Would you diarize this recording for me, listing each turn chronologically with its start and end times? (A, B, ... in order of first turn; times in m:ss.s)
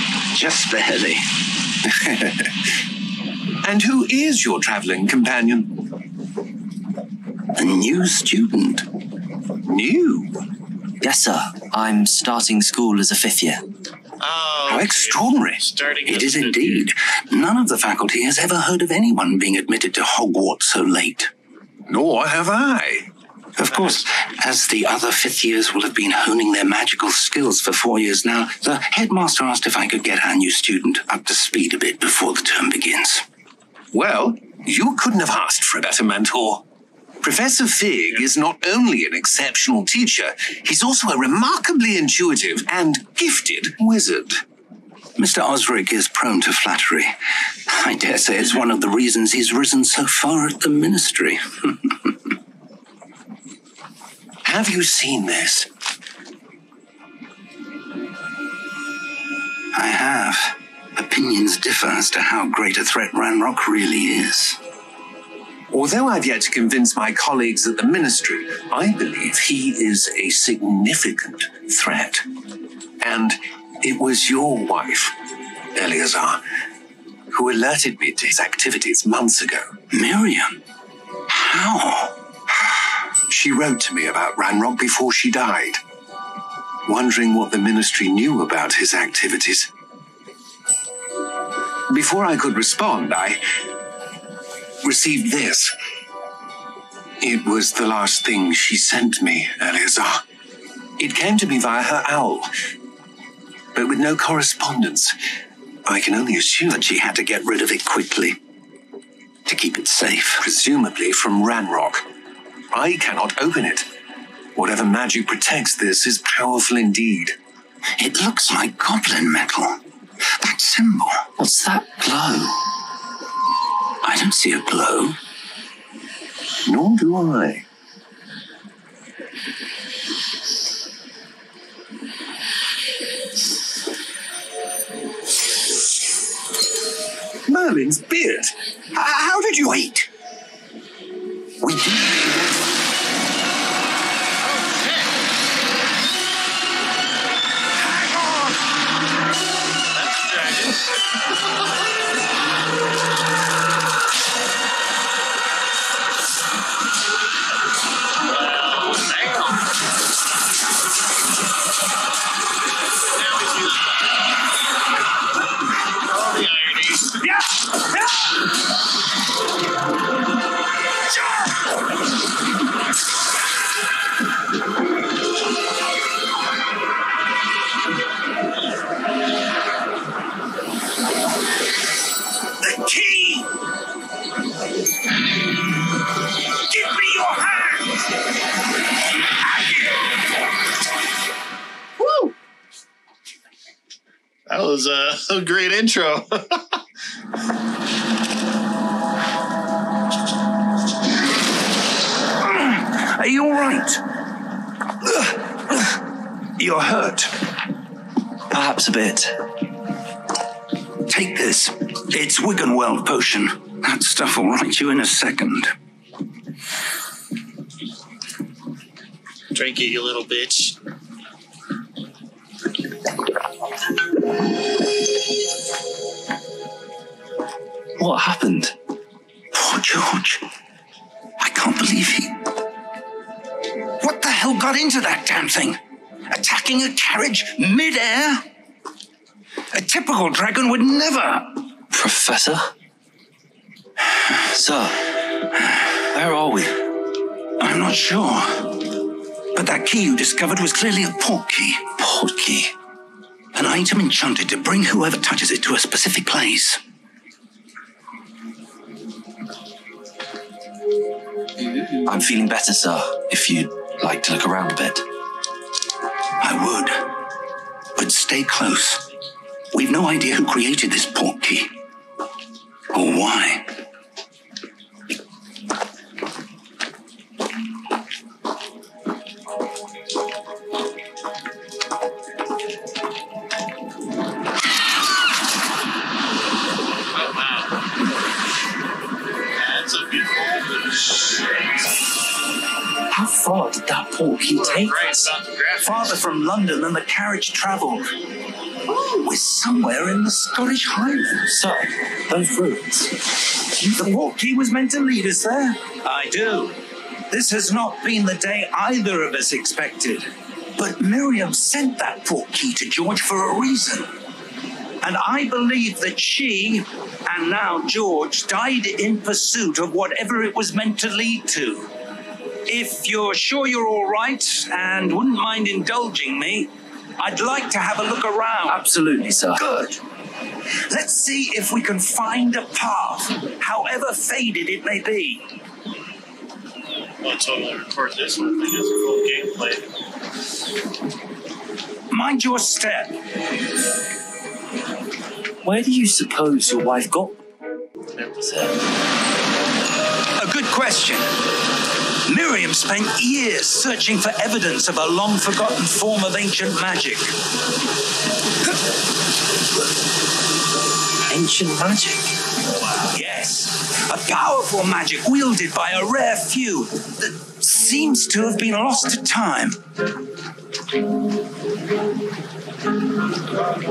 0:00.3-0:01.2 A
0:01.9-0:02.5 B
0:03.6-0:05.8 B
0:07.5-0:08.9 A
0:09.6-0:10.4 B
0:11.0-0:13.6 C
0:14.2-0:16.9 D
0:14.7-0:15.6 B
0:16.1-0:21.3 A
0:21.9-0:23.1 B
0:23.6-0:33.2 A
0:23.7-0:24.2 D
0:33.9-0:36.6 B
0:37.2-0:44.4 B
0:45.2-0:47.1 A
0:47.7-0:52.1 A
0:54.4-0:55.7 B
0:59.7-1:04.6 A
1:05.7-1:12.2 B
1:13.0-1:15.2 B
1:15.7-1:16.4 B
1:17.3-1:19.7 B
1:19.9-1:20.6 A
1:21.3-1:22.2 A
1:23.3-1:25.8 B
1:26.8-1:29.7 B
1:31.9-1:33.4 B
1:34.8-1:35.7 B
1:37.2-1:40.2 B
1:41.0-1:42.5 B
1:43.7-1:45.2 B
1:45.8-1:46.9 B
1:46.7-1:48.4 A
1:49.4-1:50.4 A
1:50.4-1:52.0 B
1:52.7-1:53.9 B
1:54.5-1:57.4 B
1:58.0-1:59.8 A
2:00.4-2:01.2 A
2:01.4-2:02.6 C
2:04.0-2:05.2 A
2:06.6-2:07.6 B
2:17.4-2:20.1 B
2:21.6-2:22.1 B
2:24.4-2:25.1 D
2:29.9-2:31.2 D
2:38.2-2:39.7 D
2:43.1-2:44.1 D
2:46.0-2:47.2 D
2:47.2-2:48.0 A
3:02.6-3:03.5 A
3:06.7-3:08.0 A
3:09.4-3:10.0 A
3:12.0-3:12.3 D
3:14.5-3:16.8 D
3:22.4-3:24.0 A
3:25.1-3:26.0 A
3:26.6-3:27.3 A
3:28.5-3:29.3 C
3:31.1-3:35.7 A
3:39.5-3:40.8 D
3:48.0-3:48.7 C
3:49.5-3:50.4 A
3:51.4-3:52.4 A
3:54.0-3:55.8 A
3:56.3-3:58.4 A
3:59.7-4:01.6 A
4:01.9-4:02.7 C
4:04.5-4:05.1 C
4:06.1-4:06.8 C
4:07.6-4:08.8 A
4:09.5-4:11.9 A
4:12.0-4:12.7 C
4:13.5-4:16.8 A
4:21.8-4:25.0 C
4:26.4-4:27.0 A
4:28.0-4:29.0 A
4:29.7-4:31.7 A
4:32.9-4:33.7 A
4:47.1-4:47.8 D
4:49.6-4:51.5 D
4:53.1-4:55.3 C
4:54.4-4:56.2 D
4:55.8-4:58.1 A
4:58.9-5:01.6 A
5:01.5-5:03.1 C
5:03.7-5:04.1 C
5:03.9-5:06.8 A
5:07.3-5:14.1 A
5:15.0-5:21.9 A
5:22.7-5:28.8 A
5:28.6-5:29.6 C
5:29.5-5:30.0 A
5:30.9-5:35.4 A
5:37.2-5:39.9 D
5:42.1-5:43.2 A
5:45.6-5:47.4 C
5:48.4-5:48.8 C
5:50.4-5:51.3 A
5:52.2-5:57.3 A
6:01.2-6:01.6 D
6:01.3-6:02.3 C
6:02.6-6:03.2 D
6:03.1-6:09.8 A